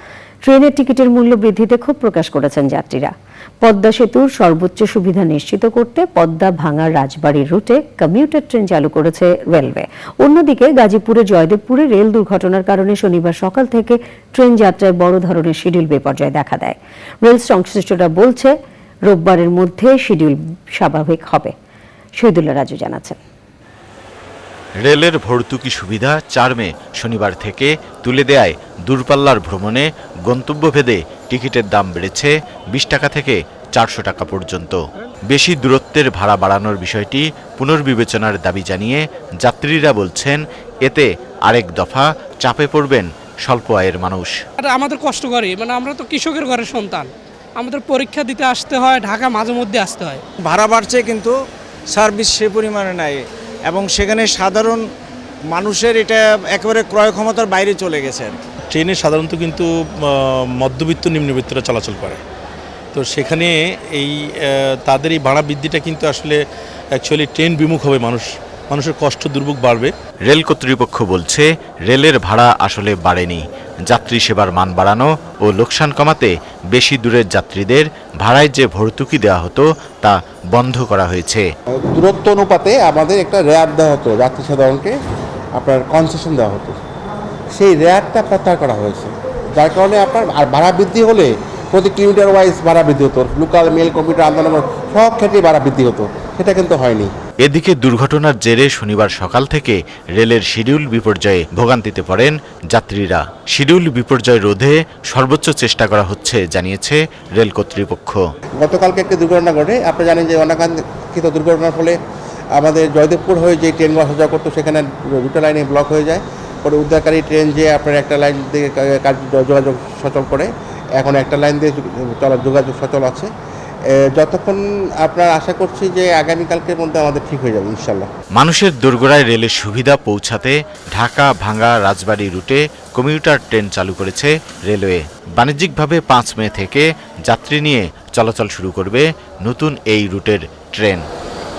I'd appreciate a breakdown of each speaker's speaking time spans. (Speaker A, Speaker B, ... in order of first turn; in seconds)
Speaker A: 0.5-18.6, 19.1-21.5, 22.2-23.2
Speaker B: 24.8-44.4, 70.3-81.5, 97.4-108.2, 128.4-141.0
Speaker C: 44.6-50.2
Speaker D: 50.4-51.4, 51.9-54.9, 55.5-58.4
Speaker E: 58.7-62.2, 62.9-66.4, 66.9-69.9
Speaker F: 81.9-84.9, 85.6-86.8, 87.5-97.1, 108.6-112.0, 112.6-123.3, 124.0-128.1